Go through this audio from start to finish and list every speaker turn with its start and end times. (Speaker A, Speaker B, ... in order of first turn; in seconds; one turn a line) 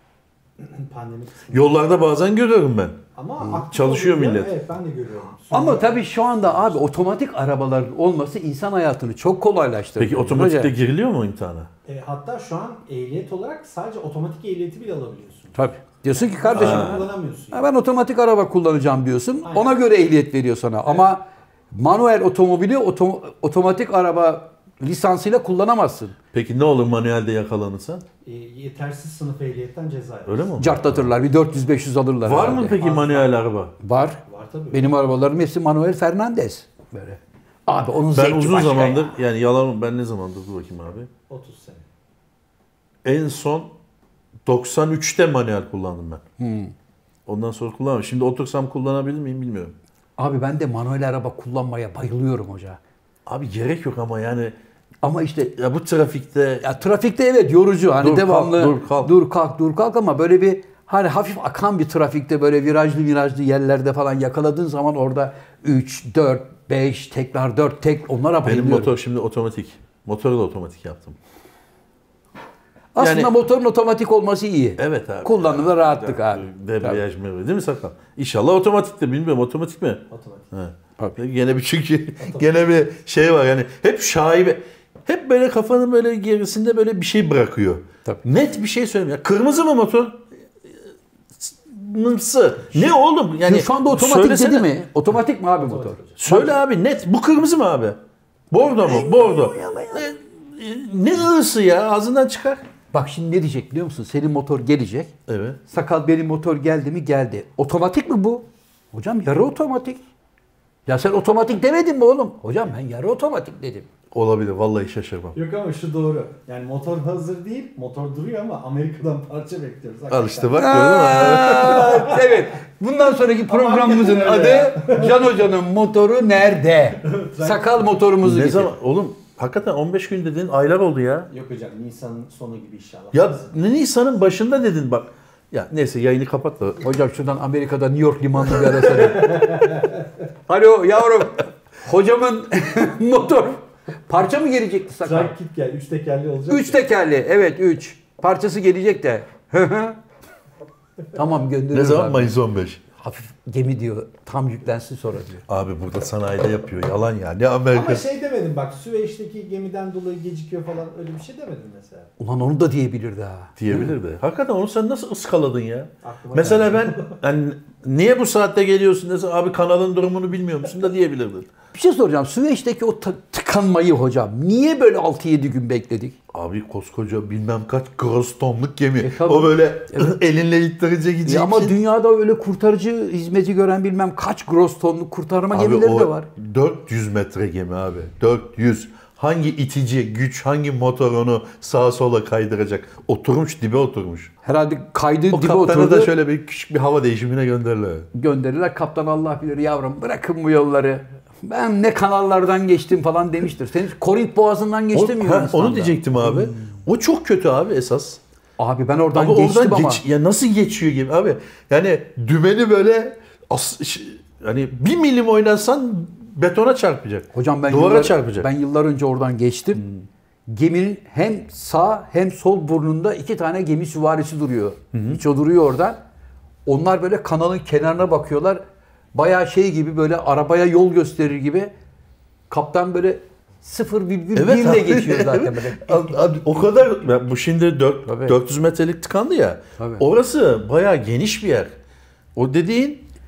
Speaker A: 0.6-1.8
Speaker B: 1.5-3.0
Speaker A: 3.1-6.8
Speaker B: 3.7-4.5
Speaker C: 5.5-10.7
Speaker B: 10.0-11.7
Speaker A: 11.8-15.5
Speaker C: 15.5-26.1
Speaker A: 16.1-17.7
Speaker B: 16.5-17.0
Speaker B: 26.3-28.0
Speaker A: 28.2-30.5
Speaker B: 30.3-31.1
Speaker C: 30.6-32.8
Speaker B: 32.2-33.7
Speaker A: 32.5-33.3
Speaker C: 33.8-34.2
Speaker A: 34.3-34.9
Speaker C: 34.7-39.1
Speaker B: 38.1-41.1
Speaker A: 41.3-41.8
Speaker B: 43.0-43.7
Speaker B: 44.5-46.2
Speaker C: 46.4-46.7
Speaker B: 47.2-49.7
Speaker C: 50.2-52.8
Speaker B: 53.2-54.5
Speaker C: 55.0-55.5
Speaker B: 55.5-56.6
Speaker C: 56.6-68.9
Speaker B: 58.0-59.1
Speaker B: 68.4-71.2
Speaker C: 72.9-77.0
Speaker B: 73.0-73.3
Speaker B: 74.8-90.2
Speaker A: 80.1-80.4
Speaker B: 91.3-94.7
Speaker C: 93.4-96.5
Speaker A: 95.6-96.2
Speaker B: 96.2-98.0
Speaker B: 98.5-102.6
Speaker C: 98.8-100.0
Speaker C: 102.9-105.1
Speaker B: 105.3-105.6
Speaker C: 105.7-110.0
Speaker C: 110.9-113.9
Speaker B: 114.1-115.3
Speaker A: 115.3-122.3
Speaker B: 120.1-122.0
Speaker C: 120.5-128.7
Speaker A: 123.5-125.2
Speaker A: 127.0-127.9
Speaker B: 128.2-131.3
Speaker A: 131.3-133.5
Speaker B: 133.1-136.8
Speaker C: 136.8-139.7
Speaker A: 138.9-140.1
Speaker C: 140.5-145.3
Speaker A: 145.0-146.8
Speaker C: 146.5-150.0
Speaker C: 151.1-152.4
Speaker B: 151.7-152.8
Speaker C: 153.0-155.4
Speaker B: 155.5-158.0
Speaker A: 157.7-162.1
Speaker C: 162.2-163.9
Speaker B: 163.6-171.5
Speaker A: 166.0-167.2
Speaker C: 171.7-176.2
Speaker B: 176.3-181.7
Speaker C: 179.0-180.2
Speaker C: 181.2-186.3
Speaker B: 185.5-194.3
Speaker C: 194.4-196.1
Speaker B: 195.3-198.1
Speaker C: 198.1-206.8
Speaker B: 204.9-208.2
Speaker C: 208.6-210.0
Speaker B: 209.1-218.5
Speaker C: 217.3-219.8
Speaker B: 219.8-220.0
Speaker C: 220.5-226.0
Speaker B: 224.9-225.2
Speaker C: 226.7-228.6
Speaker C: 229.1-231.7
Speaker C: 232.5-236.7
Speaker B: 234.3-241.7
Speaker C: 238.1-238.4
Speaker C: 239.8-240.0
Speaker B: 242.3-243.1